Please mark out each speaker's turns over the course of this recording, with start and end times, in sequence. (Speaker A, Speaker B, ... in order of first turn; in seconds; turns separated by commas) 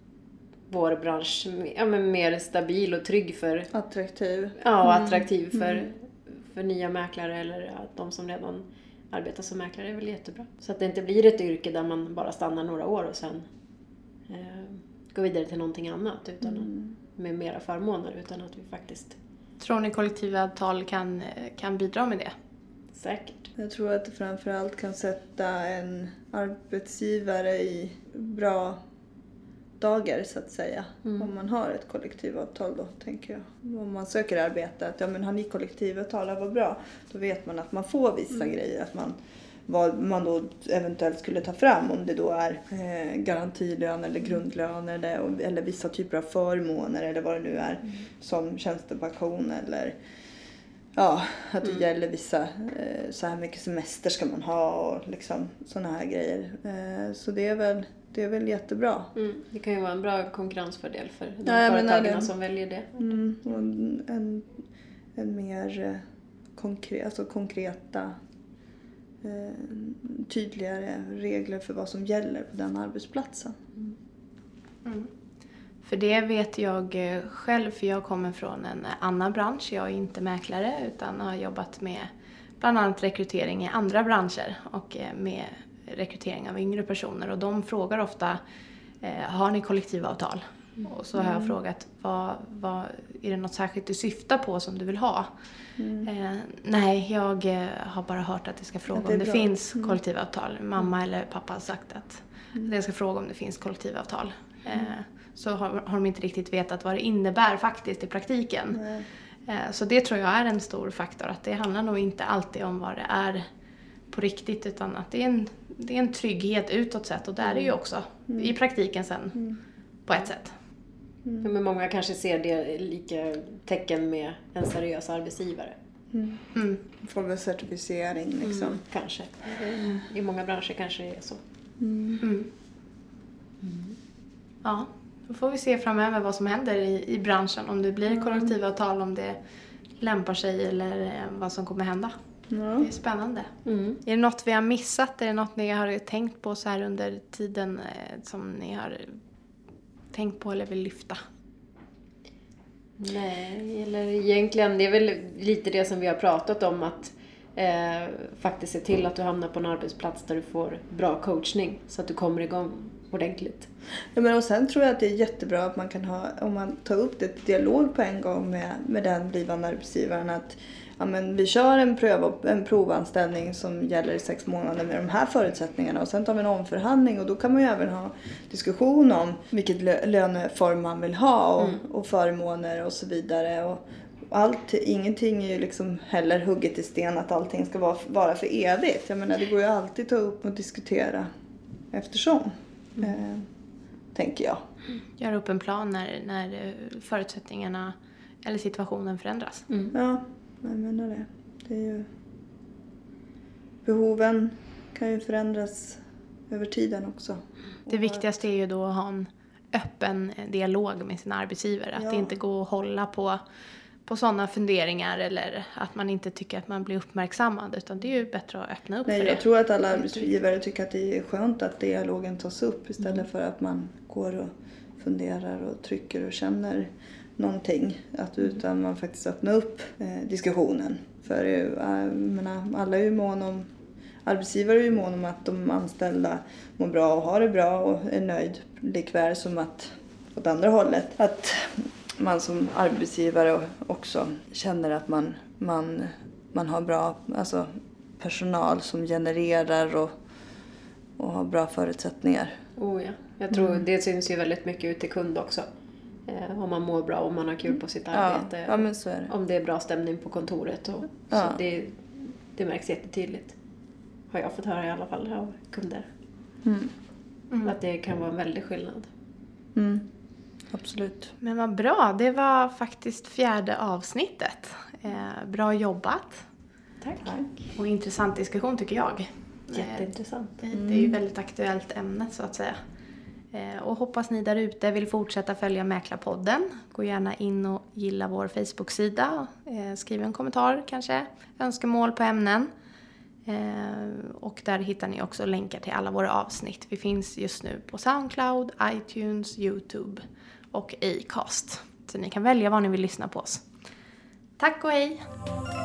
Speaker A: 0.7-3.7, Speaker B: 3.7-5.9, Speaker A: 4.6-13.5, Speaker A: 14.3-19.2, Speaker B: 16.4-16.9, Speaker C: 19.6-22.3, Speaker A: 22.9-23.5, Speaker B: 23.6-28.8, Speaker B: 29.8-50.0, Speaker A: 31.0-31.3, Speaker B: 51.0-59.1, Speaker A: 59.1-63.0, Speaker B: 61.5-62.3, Speaker B: 63.0-64.6, Speaker B: 65.2-66.0, Speaker B: 66.5-68.2, Speaker B: 69.2-73.6, Speaker C: 74.8-75.1, Speaker C: 75.8-88.4, Speaker C: 89.0-95.3, Speaker B: 91.2-91.6, Speaker B: 95.8-96.1, Speaker C: 96.0-108.9, Speaker B: 98.9-100.0, Speaker B: 108.7-109.1, Speaker C: 109.5-113.4, Speaker C: 114.1-120.5, Speaker B: 118.3-118.5, Speaker A: 121.4-125.8, Speaker B: 126.1-128.8, Speaker C: 126.5-126.8, Speaker A: 128.4-131.4, Speaker B: 131.8-132.2, Speaker C: 132.2-132.5, Speaker A: 133.6-134.0, Speaker C: 134.6-139.4, Speaker B: 138.1-138.6, Speaker C: 140.0-142.2, Speaker B: 142.5-142.9, Speaker C: 142.8-149.2, Speaker A: 143.7-144.0, Speaker C: 150.1-151.2, Speaker A: 153.0-163.7, Speaker B: 164.1-191.3, Speaker A: 181.6-181.8, Speaker B: 191.9-193.5, Speaker B: 194.1-194.6, Speaker C: 195.2-199.7, Speaker A: 199.7-199.9, Speaker B: 199.9-202.1, Speaker B: 203.8-208.2, Speaker C: 207.9-213.4, Speaker B: 212.0-212.4, Speaker C: 214.1-220.3, Speaker B: 219.1-233.7, Speaker B: 234.2-250.2, Speaker B: 251.2-252.6, Speaker A: 252.8-255.7, Speaker B: 253.5-253.8, Speaker A: 256.2-263.6, Speaker B: 258.1-259.3, Speaker B: 261.3-261.6, Speaker A: 264.3-266.1, Speaker B: 266.6-266.9, Speaker C: 267.5-267.8, Speaker A: 267.6-269.1, Speaker B: 269.8-270.1, Speaker B: 270.7-271.3, Speaker C: 271.4-276.4, Speaker A: 277.0-277.4, Speaker C: 277.8-280.1, Speaker A: 279.7-280.6, Speaker C: 280.6-282.8, Speaker B: 280.7-281.2, Speaker C: 283.5-292.7, Speaker C: 293.5-303.7, Speaker C: 304.6-305.3